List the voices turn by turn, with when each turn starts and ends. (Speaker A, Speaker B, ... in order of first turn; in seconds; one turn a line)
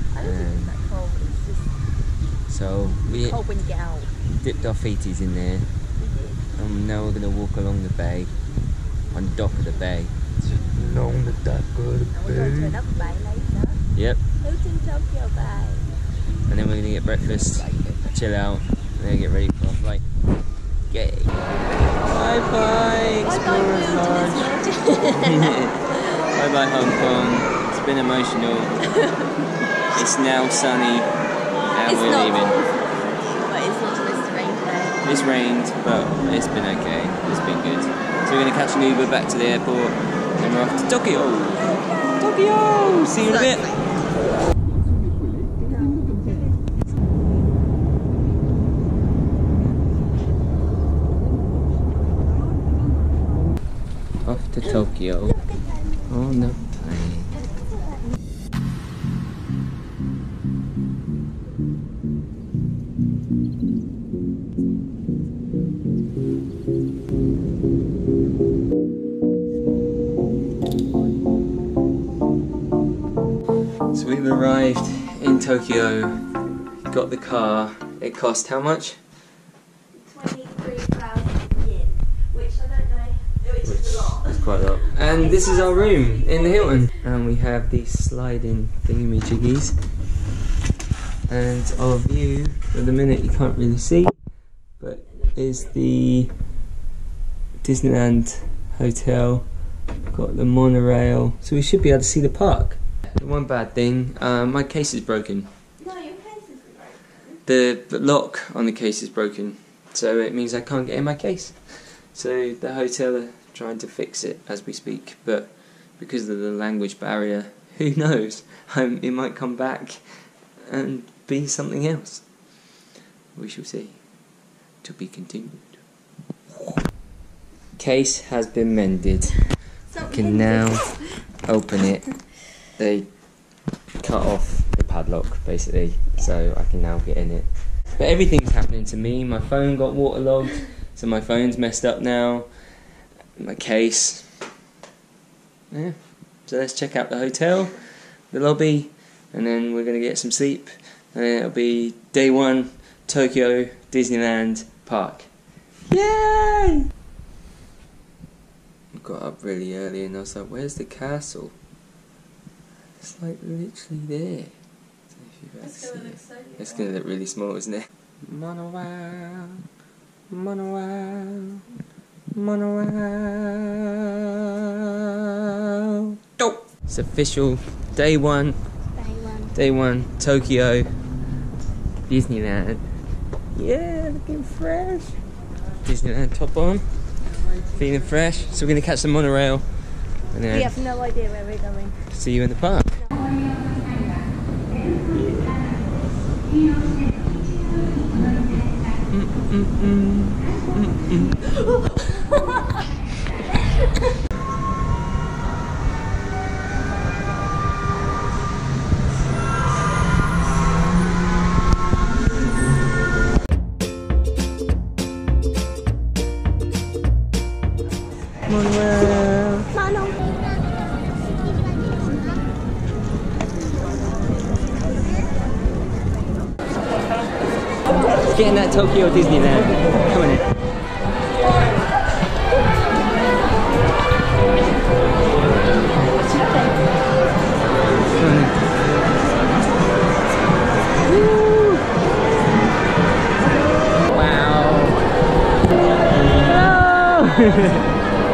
Speaker A: 0.1-1.7
Speaker B: 0.2-0.7
Speaker B: 2.5-3.4
Speaker A: 3.1-4.2
Speaker B: 4.3-5.7
Speaker A: 6.0-6.4
Speaker B: 6.5-8.3
Speaker B: 9.1-12.8
Speaker A: 12.1-13.8
Speaker B: 13.9-14.2
Speaker A: 14.4-15.9
Speaker B: 16.5-20.0
Speaker A: 17.4-18.1
Speaker B: 20.9-21.3
Speaker B: 22.1-28.9
Speaker A: 23.2-25.7
Speaker A: 28.9-29.4
Speaker B: 29.9-31.1
Speaker B: 31.7-32.6
Speaker A: 31.9-35.0
Speaker B: 35.0-43.7
Speaker A: 43.2-43.9
Speaker B: 54.2-55.4
Speaker B: 56.1-57.3
Speaker B: 73.9-76.3
Speaker B: 76.8-79.0
Speaker A: 80.0-86.9
Speaker B: 83.7-89.8
Speaker B: 91.3-94.2
Speaker B: 94.8-96.3
Speaker B: 97.6-99.5
Speaker B: 100.1-105.5
Speaker A: 105.8-107.3
Speaker B: 107.5-120.0
Speaker B: 120.6-122.7
Speaker B: 123.3-124.2
Speaker B: 124.8-125.8
Speaker B: 126.5-126.8
Speaker B: 127.8-129.4
Speaker A: 129.9-130.8
Speaker B: 130.0-133.2
Speaker B: 134.0-142.5
Speaker B: 143.4-144.4
Speaker B: 145.7-147.8
Speaker B: 148.3-155.3
Speaker B: 155.9-156.9
Speaker B: 158.9-161.6
Speaker B: 163.0-164.5
Speaker B: 165.1-169.6
Speaker A: 166.1-166.6
Speaker B: 170.3-171.6
Speaker B: 172.3-178.6
Speaker A: 179.0-179.5
Speaker B: 179.5-181.0
Speaker B: 182.1-182.8
Speaker B: 183.5-185.2
Speaker B: 185.8-186.9
Speaker B: 187.7-190.8
Speaker A: 190.5-192.0
Speaker B: 192.1-193.1
Speaker B: 199.1-201.3
Speaker A: 202.3-202.6
Speaker B: 218.5-219.7
Speaker A: 219.7-220.2
Speaker B: 228.2-230.5
Speaker B: 238.2-238.7
Speaker B: 241.1-241.8
Speaker B: 244.1-244.9
Speaker B: 246.1-247.9